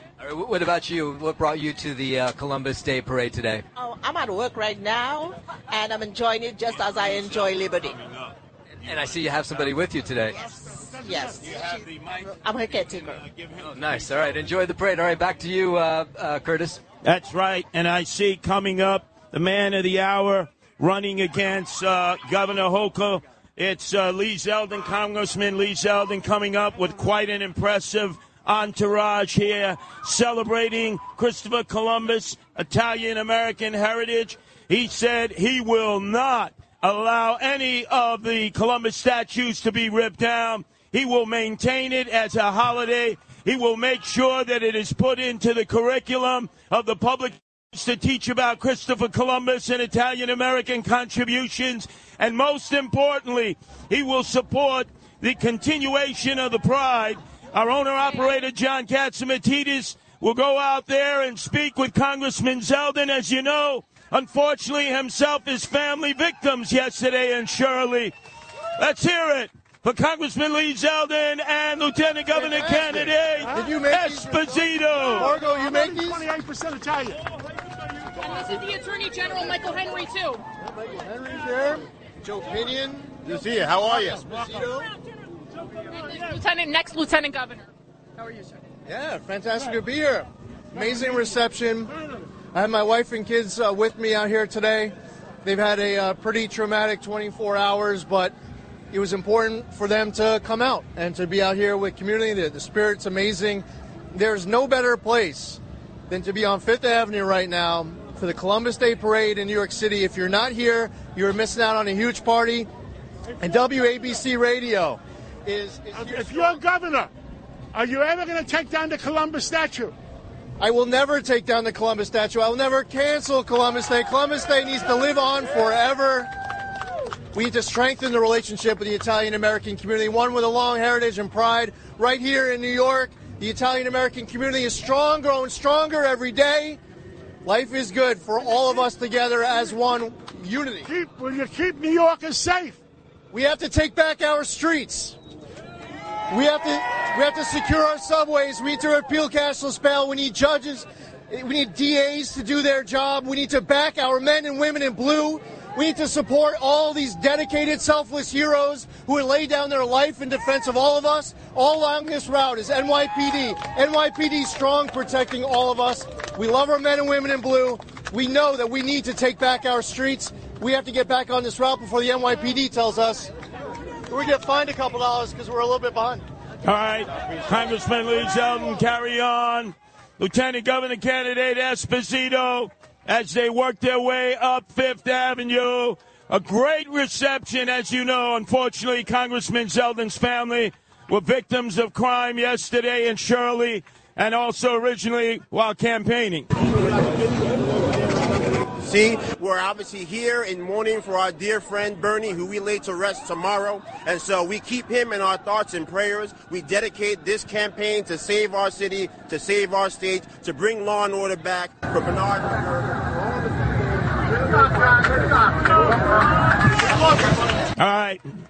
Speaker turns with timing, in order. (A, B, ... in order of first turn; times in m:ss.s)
0:00.2-0:03.6 A
0:03.7-0:08.0 B
0:08.8-0:10.4 A
0:11.0-0:13.2 B
0:13.6-0:16.8 A
0:17.0-1:08.1 C
1:08.8-1:15.3 C
1:12.3-1:14.4 D
1:15.1-1:16.2 D
1:15.2-1:17.2 E
1:18.2-1:20.4 F
1:20.8-1:24.9 D
1:25.9-1:27.7 F
1:28.9-1:31.9 D
1:32.5-1:38.3 D
1:38.9-1:52.7 D
1:53.4-1:56.6 D
1:55.9-1:57.1 E
1:57.7-2:00.0 E
2:00.6-2:06.3 D
2:07.3-2:16.8 D
2:17.4-2:20.9 D
2:20.8-2:22.8 E
2:23.3-2:25.2 D
2:26.3-2:53.3 D
2:54.1-2:56.2 D
2:56.6-3:16.5 C
3:18.8-3:32.7 G
3:37.8-3:38.2 C